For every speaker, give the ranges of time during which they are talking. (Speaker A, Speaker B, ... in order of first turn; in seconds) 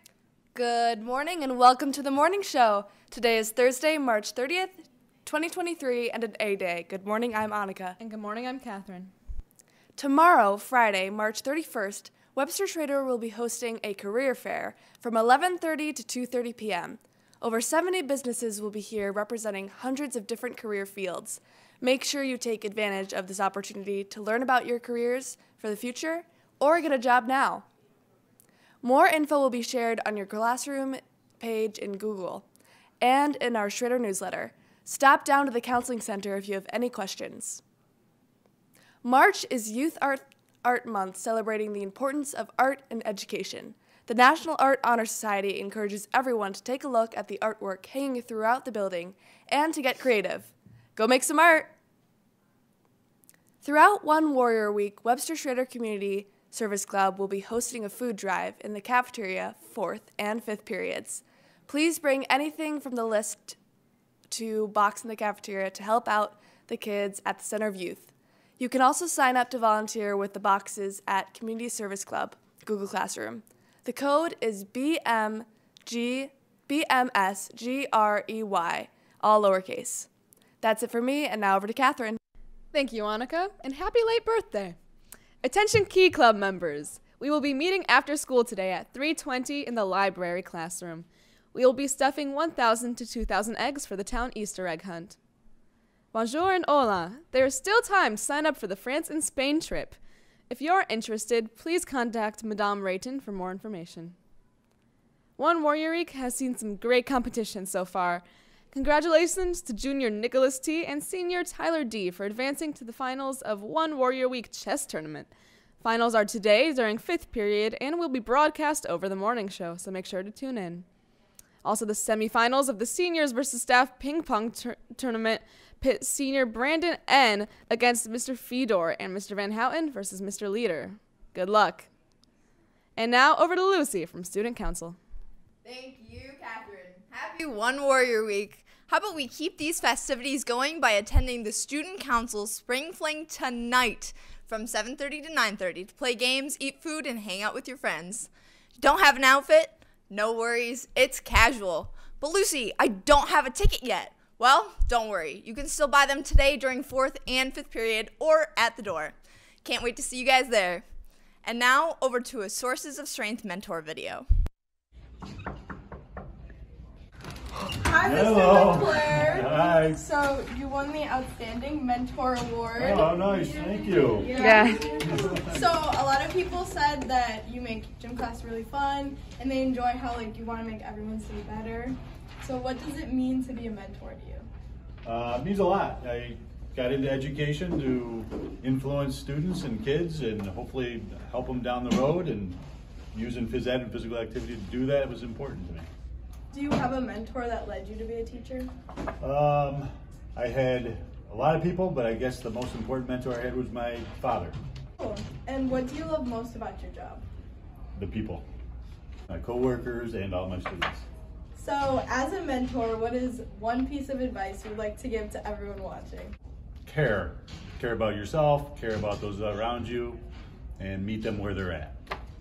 Speaker A: 0.5-8.0, 10.0-27.7, 28.8-32.5, 33.0-37.6, 39.0-51.7, 53.6-63.6, 64.3-80.1, 80.6-82.2
Speaker B: 8.0-9.1, 82.7-84.8, 85.4-95.2, 96.1-100.0, 100.5-104.1, 105.4-115.3, 115.8-120.8, 121.6-131.9, 132.9-135.0, 174.4-174.8
Speaker C: 135.6-148.3, 148.8-160.8, 161.4-164.2
Speaker D: 167.8-184.5, 196.5-198.7, 205.0-207.2, 211.6-216.3
Speaker E: 168.0-170.0, 172.7-175.7, 185.0-192.6, 193.1-195.9, 199.2-204.6, 207.9-208.4, 209.3-211.0, 216.8-220.2, 220.8-221.9